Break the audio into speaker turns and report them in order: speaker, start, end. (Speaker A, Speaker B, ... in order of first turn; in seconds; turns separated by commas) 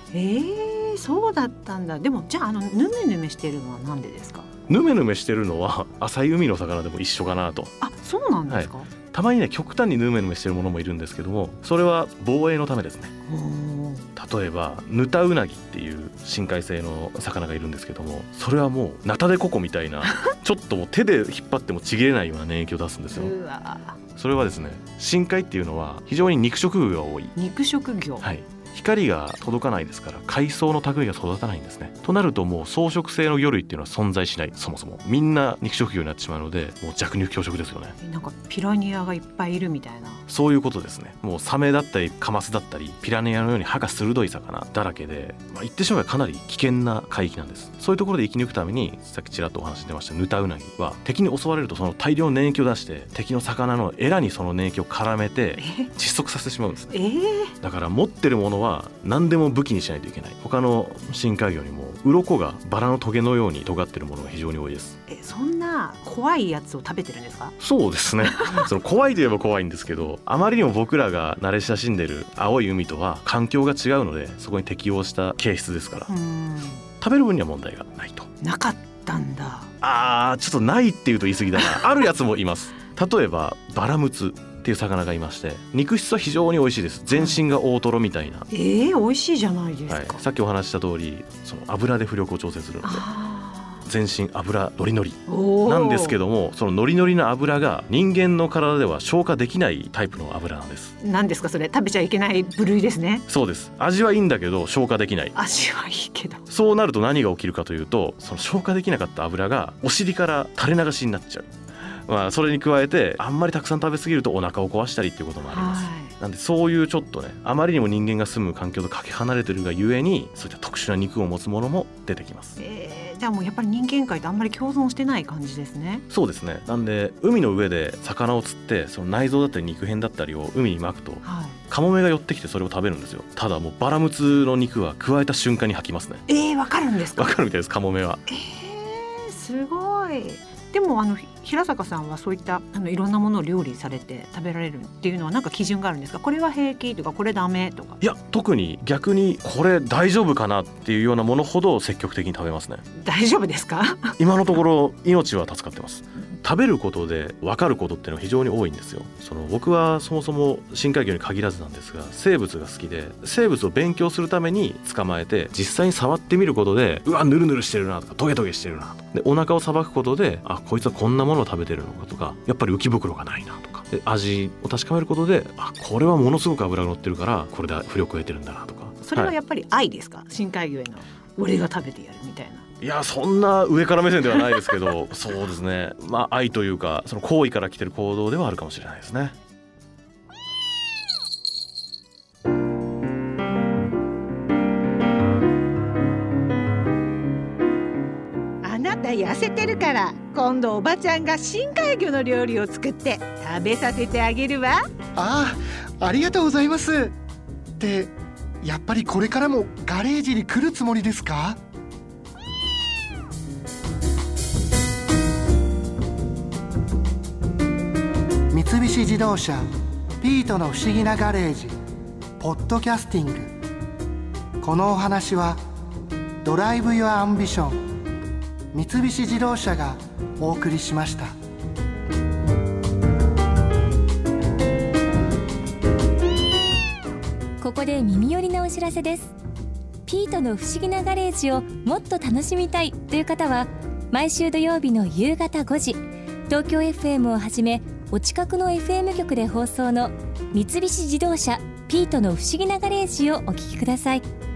Speaker A: 0.1-4.5, Speaker B: 4.7-7.7, Speaker A: 7.8-8.9, Speaker B: 8.5-13.1, Speaker A: 13.3-14.1, Speaker B: 14.2-23.3, Speaker A: 23.1-24.0, Speaker B: 24.1-27.3, Speaker A: 27.3-28.3, Speaker B: 28.2-37.9, Speaker A: 38.0-40.2, Speaker B: 40.3-56.9, Speaker A: 55.6-55.9, Speaker A: 56.9-57.5, Speaker B: 57.6-65.0, Speaker A: 65.1-67.5, Speaker B: 67.6-76.1, Speaker A: 68.3-68.6, Speaker A: 76.1-76.8, Speaker B: 77.0-78.3, Speaker A: 78.4-79.7, Speaker B: 79.8-88.5, Speaker A: 87.1-87.4, Speaker A: 88.5-90.2, Speaker B: 89.9-93.0, Speaker A: 92.8-93.8, Speaker B: 93.8-100.9, Speaker A: 95.3-96.2, Speaker A: 101.0-103.2, Speaker B: 103.3-105.3, Speaker A: 105.3-106.5, Speaker B: 106.5-111.5, Speaker B: 112.1-122.6, Speaker A: 115.5-116.1, Speaker A: 122.6-126.0, Speaker B: 126.1-136.2, Speaker A: 131.2-131.6, Speaker A: 136.3-137.3, Speaker B: 137.1-138.2, Speaker A: 138.3-148.0, Speaker B: 148.0-152.8, Speaker A: 153.0-154.2, Speaker B: 154.2-179.3, Speaker A: 179.0-182.6, Speaker B: 182.8-189.3, Speaker A: 198.6-204.8, Speaker C: 205.2-207.1, Speaker C: 207.8-211.6, Speaker C: 218.5-219.6, Speaker C: 220.2-221.7, Speaker C: 222.4-223.5, Speaker C: 224.6-225.6, Speaker C: 226.4-227.7, Speaker C: 228.7-231.3, Speaker D: 237.6-239.3, Speaker D: 240.1-254.3